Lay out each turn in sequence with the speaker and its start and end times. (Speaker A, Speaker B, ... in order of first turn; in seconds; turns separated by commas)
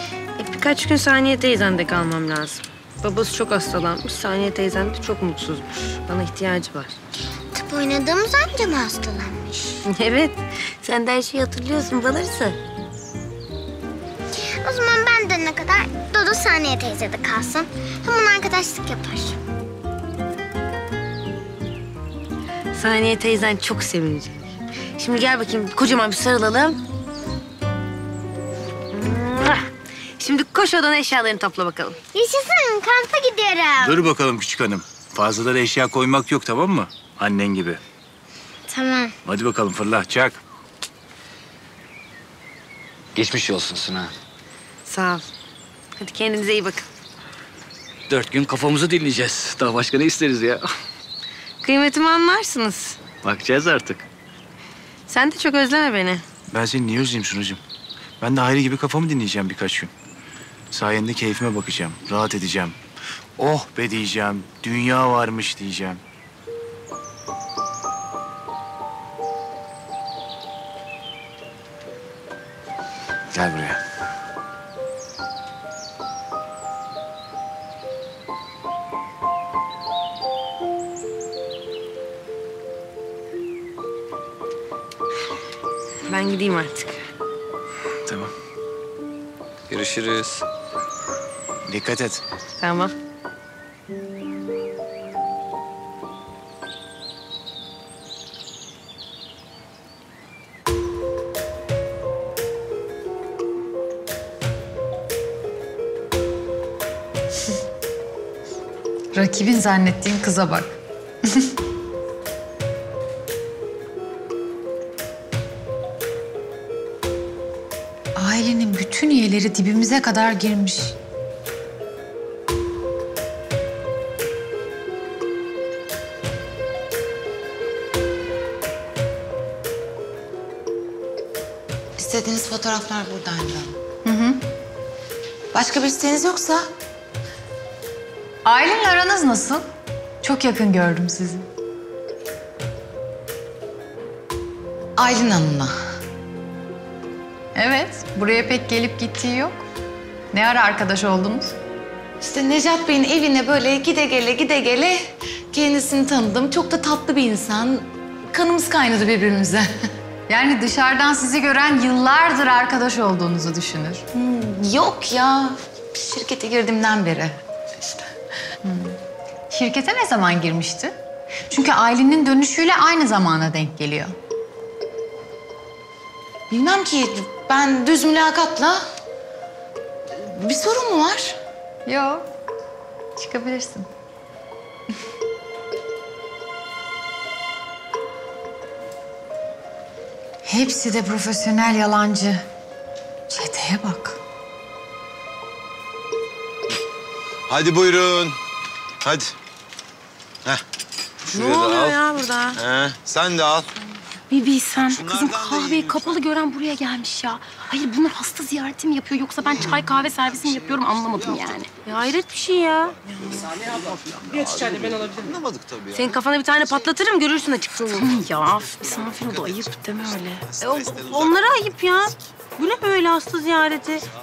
Speaker A: 0.4-7.0, Speaker B: 7.5-9.8, Speaker A: 9.8-12.6, Speaker B: 14.6-19.4, Speaker A: 22.7-24.4, Speaker A: 25.0-26.8, Speaker A: 28.9-29.6, Speaker A: 30.2-32.0, Speaker B: 32.1-34.0, Speaker C: 33.8-37.8, Speaker B: 38.7-39.1, Speaker C: 39.2-40.4, Speaker D: 43.1-44.1, Speaker A: 44.9-45.3, Speaker A: 46.0-46.9, Speaker D: 48.1-50.7, Speaker A: 51.6-53.0, Speaker D: 53.2-54.0, Speaker A: 55.1-56.2, Speaker C: 56.5-57.6, Speaker C: 58.2-59.9, Speaker C: 60.7-62.8, Speaker C: 63.4-66.0, Speaker C: 73.3-73.8, Speaker A: 86.1-87.0, Speaker C: 88.0-88.3, Speaker D: 89.7-90.4, Speaker C: 91.7-92.2, Speaker A: 92.6-92.9, Speaker E: 109.1-110.7, Speaker F: 118.2-120.9, Speaker F: 132.0-133.7, Speaker E: 134.0-134.4, Speaker F: 135.5-136.6, Speaker E: 138.4-139.7, Speaker E: 140.2-141.4, Speaker F: 145.0-145.7, Speaker E: 147.5-149.6, Speaker E: 150.3-151.5, Speaker F: 152.2-159.7, Speaker E: 160.3-164.0, Speaker F: 164.1-167.3, Speaker E: 168.6-168.9, Speaker E: 169.5-170.9, Speaker E: 171.5-174.0, Speaker F: 176.5-178.8, Speaker F: 180.2-181.4, Speaker E: 181.8-182.2, Speaker E: 183.2-183.9, Speaker E: 190.4-192.4, Speaker E: 193.3-194.2, Speaker G: 197.5-198.4, Speaker G: 199.0-199.3, Speaker G: 201.3-202.0, Speaker A: 201.3-202.6, Speaker G: 202.6-203.7, Speaker H: 204.3-211.7, Speaker G: 204.8-206.2, Speaker G: 210.3-211.6, Speaker A: 211.8-213.0, Speaker G: 213.2-216.2, Speaker A: 215.9-218.1, Speaker H: 217.9-220.6, Speaker G: 220.5-221.4, Speaker A: 220.6-224.0